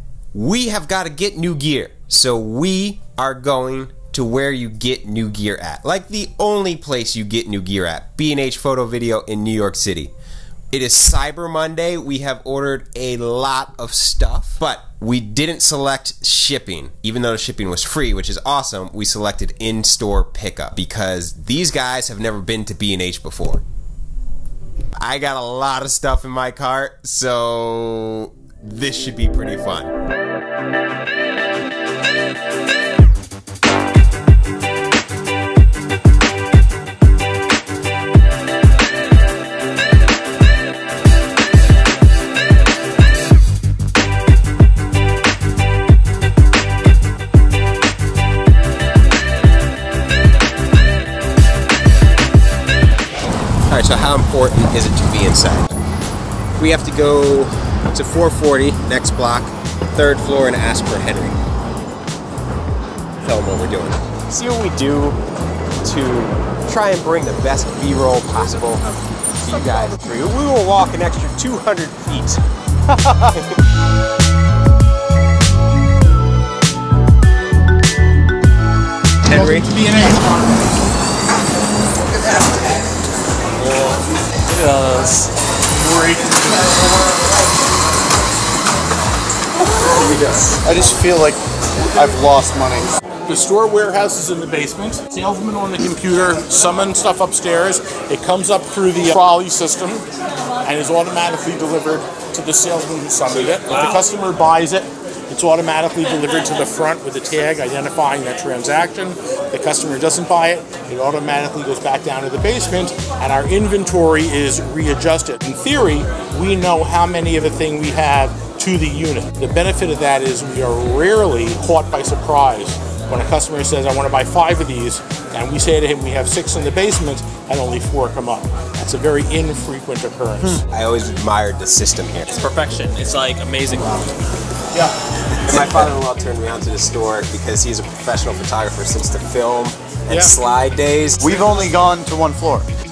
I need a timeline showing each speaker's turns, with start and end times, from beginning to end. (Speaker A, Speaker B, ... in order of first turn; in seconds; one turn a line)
Speaker A: 0.3-10.1
Speaker A: 10.7-23.6
Speaker A: 25.0-29.9
Speaker A: 53.7-55.7
Speaker A: 56.6-61.4
Speaker A: 63.2-65.2
Speaker A: 65.8-68.8
Speaker A: 69.3-73.5
Speaker A: 79.2-79.7
Speaker B: 79.3-80.7
Speaker C: 84.5-85.3
Speaker B: 85.7-86.9
Speaker D: 89.9-92.9
Speaker B: 93.2-100.0
Speaker B: 100.6-130.6
Speaker A: 130.7-132.4
Speaker C: 132.3-134.1
Speaker A: 135.3-141.4
Speaker B: 140.1-140.3
Speaker D: 141.2-142.7